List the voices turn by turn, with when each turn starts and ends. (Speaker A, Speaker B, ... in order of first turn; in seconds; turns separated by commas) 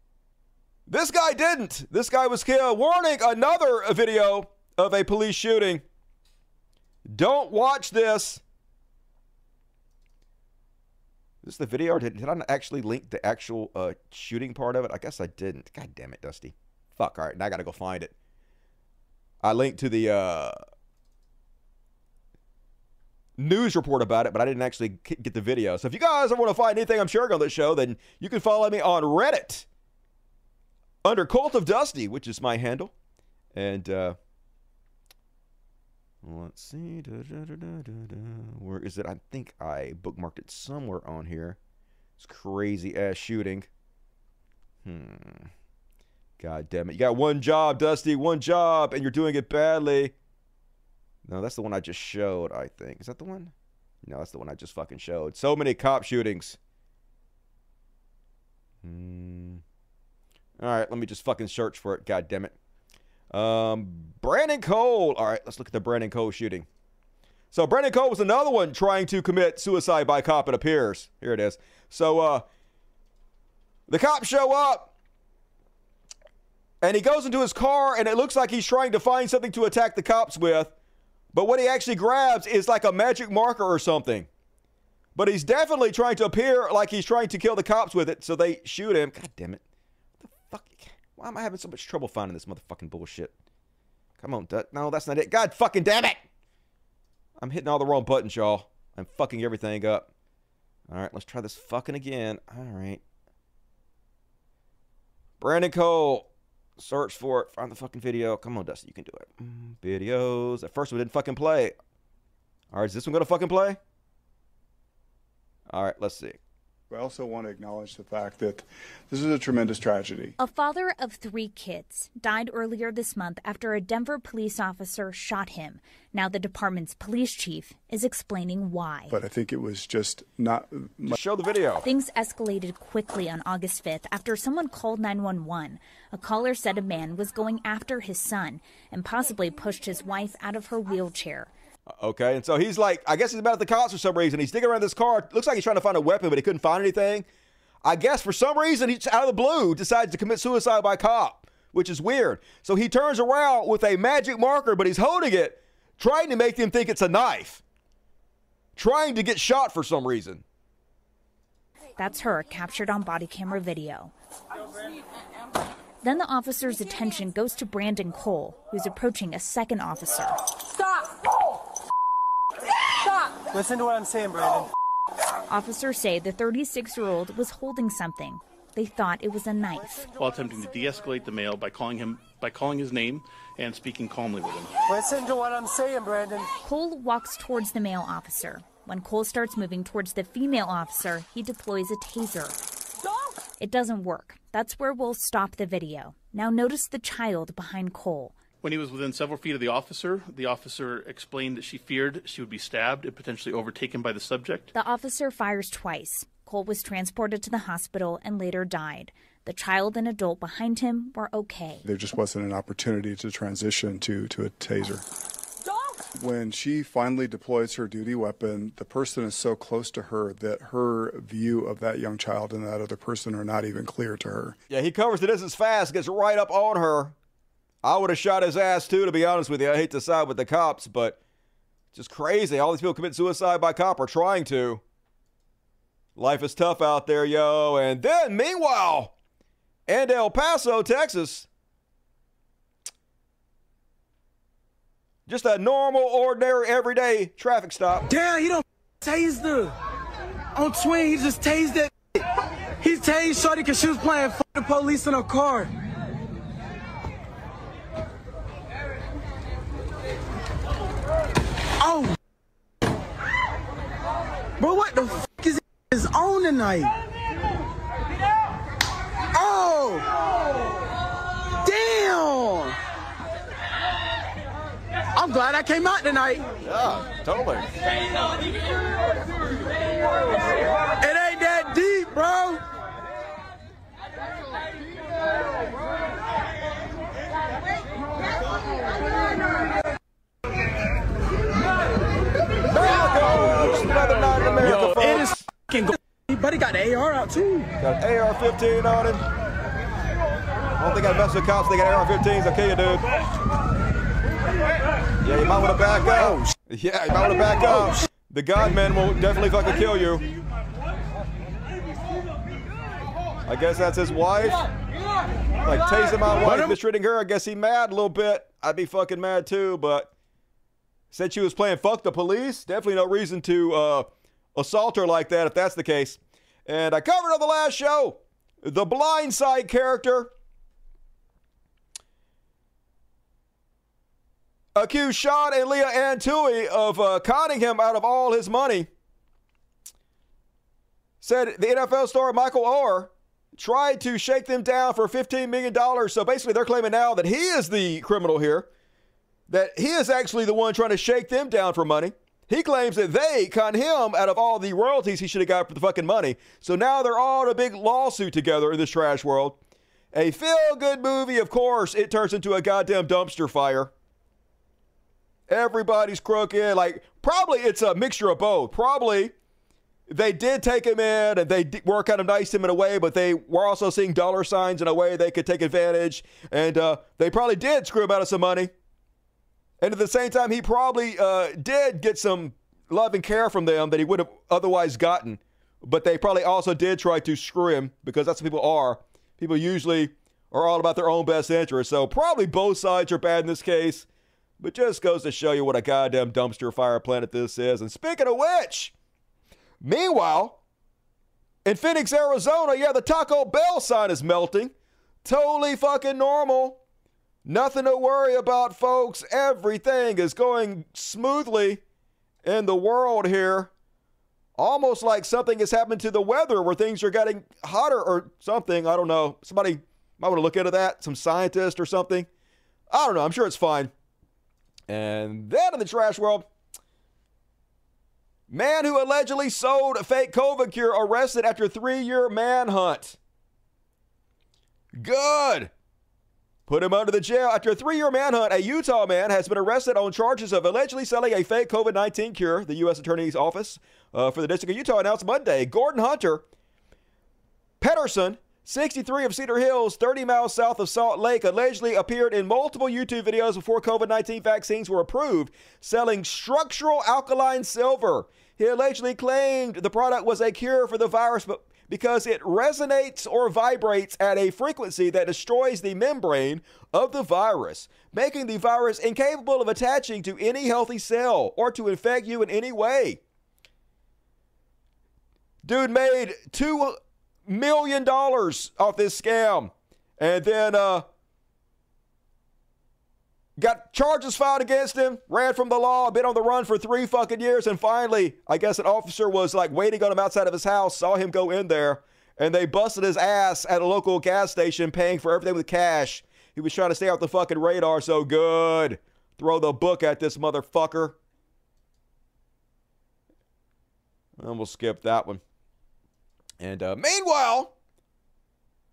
Speaker A: 0.9-5.8, Speaker A: 7.1-8.4, Speaker A: 11.4-18.1, Speaker A: 19.4-20.6, Speaker A: 23.4-29.7, Speaker A: 31.0-32.9, Speaker A: 33.5-34.2, Speaker A: 36.2-41.6, Speaker A: 42.2-43.7, Speaker A: 44.8-45.5, Speaker A: 46.4-50.1, Speaker A: 51.3-53.5, Speaker A: 54.0-56.6, Speaker A: 58.8-59.6, Speaker A: 60.6-62.5, Speaker A: 63.3-66.7, Speaker A: 67.5-72.5, Speaker A: 73.9-74.9, Speaker A: 76.8-80.7, Speaker A: 81.3-84.3, Speaker A: 85.1-89.6, Speaker A: 90.2-93.3, Speaker A: 94.2-96.2, Speaker A: 97.4-100.1, Speaker A: 100.9-103.0, Speaker A: 105.4-106.3, Speaker A: 106.8-111.7, Speaker A: 112.7-113.8, Speaker A: 115.7-116.4, Speaker B: 116.9-120.4, Speaker C: 120.4-129.2, Speaker B: 129.1-131.2, Speaker A: 131.1-131.8, Speaker C: 131.8-141.5, Speaker A: 142.0-147.3, Speaker A: 147.8-157.6, Speaker A: 158.8-160.4, Speaker C: 161.9-164.1, Speaker C: 166.0-170.4, Speaker D: 173.5-174.7, Speaker C: 175.5-180.1, Speaker E: 180.1-184.8, Speaker D: 184.9-186.5, Speaker C: 186.6-192.6, Speaker C: 193.6-198.4, Speaker E: 198.6-204.7, Speaker C: 204.7-211.8, Speaker B: 211.8-215.0, Speaker B: 216.2-224.6, Speaker A: 224.7-227.1, Speaker A: 227.8-231.2, Speaker A: 231.9-234.8, Speaker A: 236.2-239.1, Speaker A: 239.9-241.5, Speaker A: 245.3-248.1, Speaker F: 248.1-249.7, Speaker F: 250.6-251.9, Speaker F: 252.8-255.7, Speaker F: 261.8-262.1, Speaker F: 264.6-266.9, Speaker F: 269.3-270.1, Speaker F: 271.6-272.8, Speaker F: 275.1-276.5, Speaker A: 276.6-277.7, Speaker F: 281.0-282.6, Speaker A: 292.7-295.4, Speaker F: 294.6-297.7, Speaker A: 297.8-299.2, Speaker A: 300.8-303.1, Speaker A: 305.2-310.2, Speaker A: 313.4-314.6, Speaker A: 315.6-320.1, Speaker A: 321.1-330.3, Speaker A: 334.7-338.9, Speaker A: 341.2-348.7, Speaker A: 349.5-359.6, Speaker A: 360.1-363.9, Speaker A: 365.5-369.3, Speaker A: 370.1-378.7, Speaker A: 379.8-394.1, Speaker A: 394.6-398.9, Speaker A: 399.8-400.6, Speaker A: 401.6-404.7, Speaker A: 405.2-406.8, Speaker A: 407.4-411.8, Speaker A: 412.4-413.7, Speaker A: 414.6-422.3, Speaker A: 422.9-423.9, Speaker A: 424.9-426.5, Speaker A: 428.5-433.2, Speaker A: 435.0-435.7, Speaker A: 436.7-446.4, Speaker A: 447.8-473.2, Speaker A: 475.6-481.1, Speaker A: 483.6-501.2, Speaker A: 504.4-505.4, Speaker A: 506.6-507.7